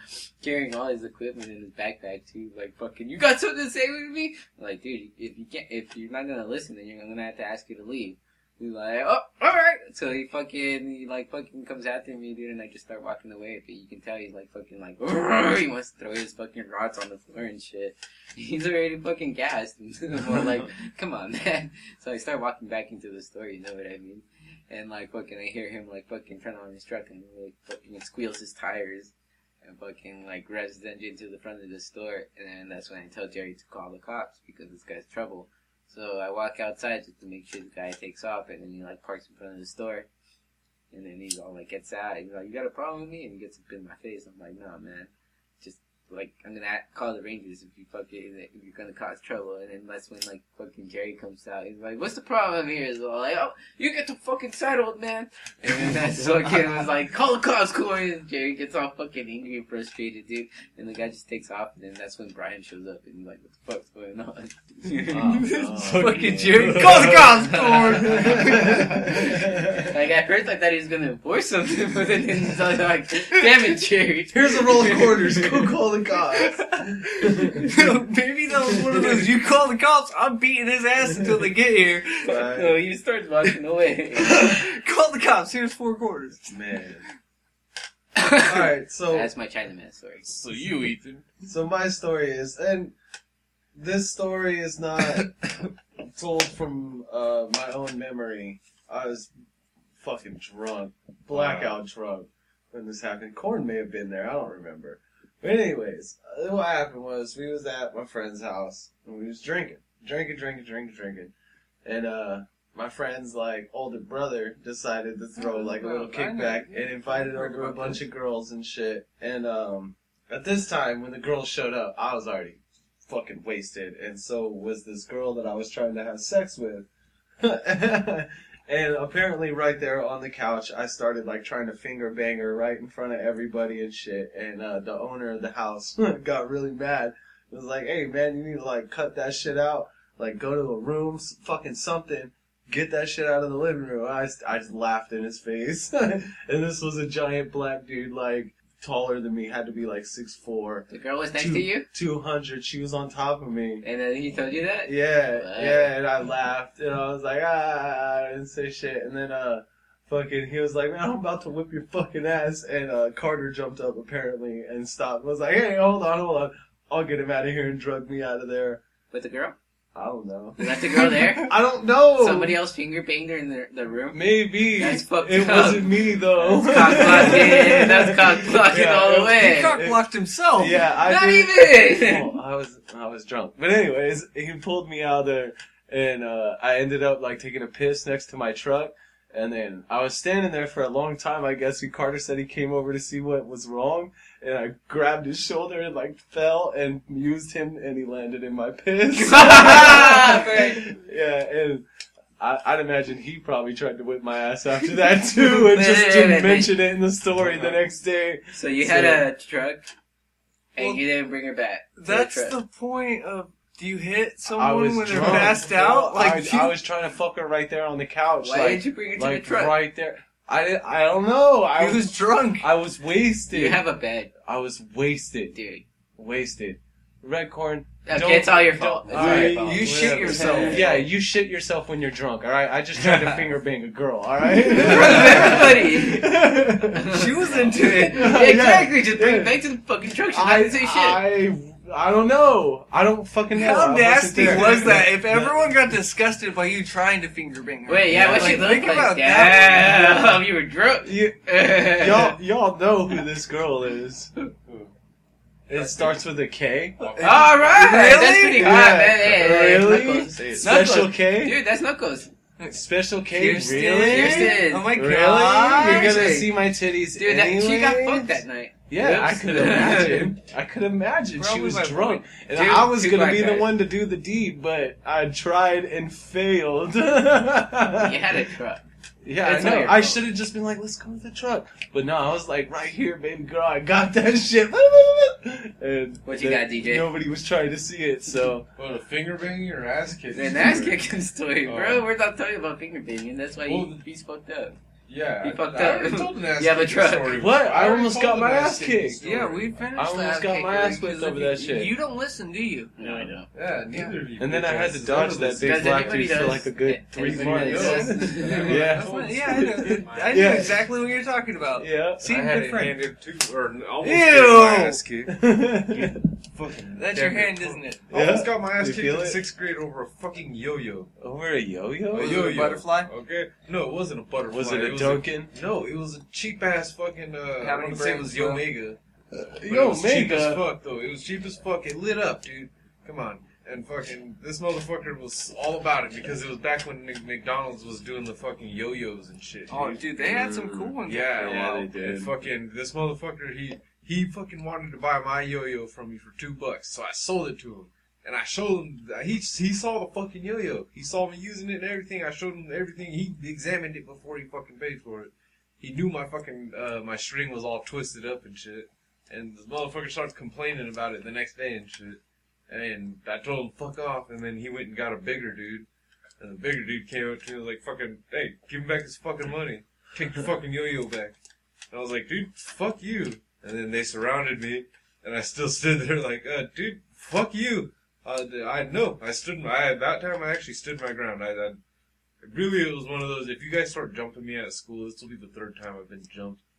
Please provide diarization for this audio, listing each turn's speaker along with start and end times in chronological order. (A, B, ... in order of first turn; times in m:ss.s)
0:00.4-0:29.1 A
0:29.6-0:40.1 A
0:40.9-0:45.1 A
0:45.6-1:05.5 A
0:55.7-0:56.5 B
1:05.1-1:09.9 C
1:05.2-1:09.2 D
1:05.9-1:07.1 B
1:07.6-1:15.6 A
1:14.3-1:16.6 C
1:17.2-1:17.7 C
1:17.4-1:22.4 D
1:18.7-1:19.2 C
1:22.2-1:22.8 C
1:22.2-1:24.5 A
1:24.2-1:26.4 D
1:26.5-1:27.0 C
1:28.2-1:30.6 A
1:28.4-1:29.3 C
1:30.2-1:31.2 B
1:31.4-1:32.9 C
1:33.7-1:35.3 C
1:36.1-1:39.3 C
1:40.0-1:51.3 C
1:41.3-1:41.8 B
1:51.8-2:06.9 C
1:55.4-1:58.0 D
2:07.4-2:33.8 C
2:30.9-2:31.9 A
2:33.8-2:35.9 A
2:34.8-2:48.8 C
2:49.1-2:49.6 A
2:49.9-2:52.6 C
2:50.6-2:51.5 A
2:52.2-2:59.8 A
2:54.1-3:21.8 C
2:59.3-3:00.8 D
3:01.0-3:02.4 A
3:19.1-3:20.8 A
3:19.5-3:20.7 D
3:22.4-3:29.2 C
3:25.3-3:26.9 A
3:27.3-3:27.8 B
3:28.5-3:29.9 A
3:30.8-3:32.6 A
3:30.8-3:31.0 D
3:32.0-3:36.8 D
3:34.5-3:43.8 C
3:38.4-3:39.9 A
3:41.8-3:42.7 D
3:43.5-3:44.3 A
3:44.4-3:45.6 C
3:45.5-3:45.8 A
3:46.2-3:59.6 C
3:48.0-3:51.1 A
3:49.1-3:50.9 B
3:49.1-3:51.0 D
3:53.0-3:53.5 B
3:54.6-4:01.2 A
3:57.0-3:58.4 D
3:57.5-3:57.8 B
4:00.3-4:05.6 C
4:03.5-4:10.2 D
4:07.9-4:12.4 A
4:08.1-4:08.8 C
4:11.0-4:14.3 C
4:14.6-4:14.9 B
4:15.7-4:17.4 C
4:15.8-4:16.2 D
4:17.0-4:18.1 B
4:17.2-4:22.3 A
4:17.7-4:18.7 D
4:18.5-4:21.6 C
4:20.4-4:20.7 B
4:22.6-4:26.6 D
4:22.7-4:38.4 C
4:24.0-4:25.0 A
4:27.1-4:30.4 A
4:31.4-4:32.2 D
4:32.5-4:33.8 A
4:37.9-4:38.8 A
4:39.2-4:48.7 C
4:39.4-4:40.2 A
4:46.2-4:47.1 A
4:48.8-4:51.0 B
4:50.3-4:54.8 A
4:51.6-4:52.1 B
4:53.6-4:54.0 B
4:55.1-4:59.7 B
4:55.4-4:57.5 A
4:57.3-4:59.3 C
4:59.2-5:02.9 D
4:59.9-5:01.9 C
5:03.0-5:03.5 A
5:03.0-5:03.3 C
5:03.5-5:06.6 B
5:04.4-5:10.9 C
5:05.6-5:09.0 A
5:07.2-5:10.5 B
5:07.6-5:13.0 D
5:11.8-5:12.2 C
5:12.2-5:21.1 B
5:14.0-5:15.0 D
5:15.3-5:16.2 C
5:16.9-5:18.0 D
5:18.1-5:19.4 C
5:21.2-5:22.5 C
5:22.1-5:29.0 B
5:22.1-5:23.1 D
5:24.5-5:25.5 C
5:27.6-5:28.7 D
5:29.3-5:30.7 C
5:29.6-5:40.1 B
5:39.7-5:41.9 D
5:40.2-5:42.3 C
5:41.0-6:05.9 B
6:06.4-6:11.3 B
6:11.9-6:21.8 B
6:22.4-6:26.6 B